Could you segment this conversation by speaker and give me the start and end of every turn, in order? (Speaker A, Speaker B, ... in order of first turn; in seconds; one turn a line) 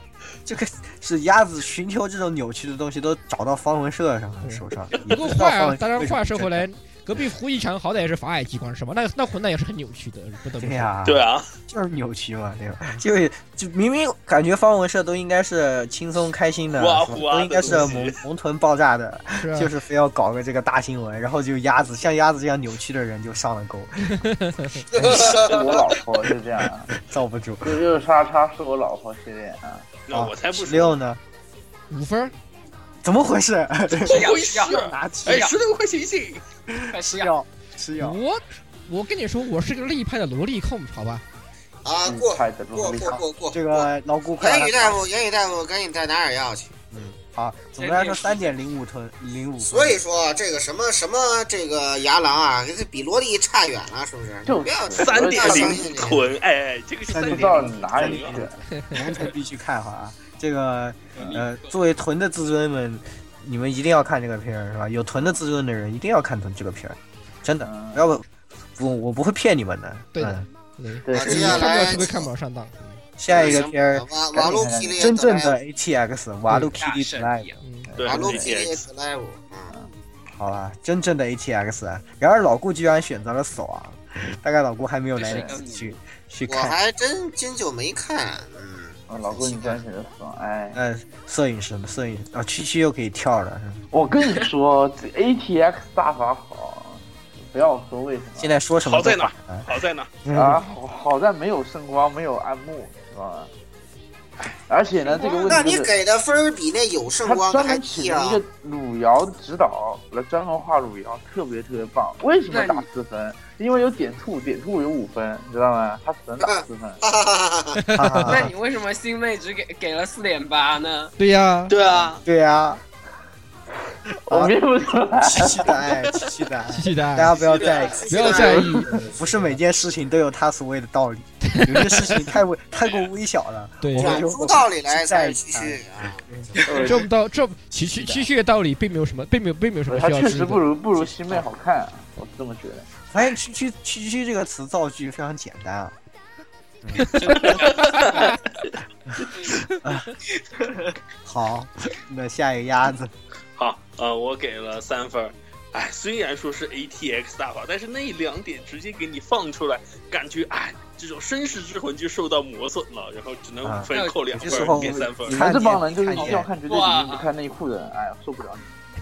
Speaker A: 0.5-6.7
Speaker B: 4.4-10.9
Speaker A: 10.6-24.2
Speaker C: 11.0-11.4
Speaker C: 16.7-18.2
Speaker B: 19.4-19.7
Speaker B: 24.1-24.9
Speaker D: 24.9-25.6
Speaker A: 24.9-25.3
Speaker C: 25.0-25.5
Speaker E: 25.0-26.9
Speaker A: 26.9-27.8
Speaker E: 27.6-30.0
Speaker C: 30.1-31.0
Speaker A: 30.1-31.2
Speaker B: 31.9-32.3
Speaker A: 33.0-35.5
Speaker C: 34.0-36.4
Speaker F: 34.0-35.5
Speaker A: 36.7-38.2
Speaker F: 36.9-37.3
Speaker B: 38.0-41.2
Speaker D: 41.8-43.9
Speaker E: 42.0-43.2
Speaker A: 42.9-45.0
Speaker D: 44.4-46.8
Speaker A: 46.9-50.0
Speaker C: 47.8-48.5
Speaker D: 49.6-56.3
Speaker E: 54.5-56.0
Speaker C: 55.0-58.4
Speaker A: 57.0-68.2
Speaker E: 57.1-58.6
Speaker F: 61.1-61.6
Speaker E: 67.6-68.0
Speaker A: 68.8-70.5
Speaker B: 70.1-73.0
Speaker E: 71.0-71.9
Speaker D: 71.1-72.3
Speaker A: 73.2-77.5
Speaker D: 73.3-75.6
Speaker E: 74.3-75.1
Speaker F: 76.7-77.6
Speaker B: 77.6-77.9
Speaker E: 77.9-78.7
Speaker C: 78.0-78.8
Speaker D: 78.0-79.7
Speaker A: 80.3-86.8
Speaker F: 85.2-86.0
Speaker D: 86.5-89.8
Speaker E: 89.1-90.8
Speaker A: 90.7-93.8
Speaker E: 93.9-98.6
Speaker A: 98.4-99.7
Speaker C: 98.8-100.1
Speaker A: 100.2-100.6
Speaker E: 100.3-103.5
Speaker E: 104.7-105.9
Speaker F: 105.0-105.7
Speaker D: 105.5-108.4
Speaker E: 107.2-117.0
Speaker F: 112.5-112.9
Speaker D: 116.4-117.8
Speaker B: 117.8-118.4
Speaker A: 117.9-118.5
Speaker F: 118.3-121.1
Speaker B: 121.2-121.7
Speaker F: 121.7-122.2
Speaker A: 122.0-122.8
Speaker E: 124.2-125.8
Speaker A: 125.2-128.6
Speaker B: 126.7-127.4
Speaker D: 127.4-129.4
Speaker F: 127.5-128.5
Speaker B: 128.1-128.9
Speaker A: 129.1-136.5
Speaker B: 131.4-132.3
Speaker B: 133.8-134.2
Speaker D: 133.9-136.9
Speaker E: 136.6-137.1
Speaker B: 136.8-140.6
Speaker E: 139.9-142.9
Speaker A: 141.0-141.4
Speaker A: 143.1-145.9
Speaker A: 146.8-147.6
Speaker B: 147.0-148.3
Speaker F: 147.1-148.3
Speaker C: 147.3-148.2
Speaker A: 149.8-150.1
Speaker A: 151.2-153.1
Speaker C: 153.6-165.4
Speaker A: 163.6-166.5
Speaker F: 163.9-164.9
Speaker E: 165.2-168.7
Speaker F: 166.1-167.3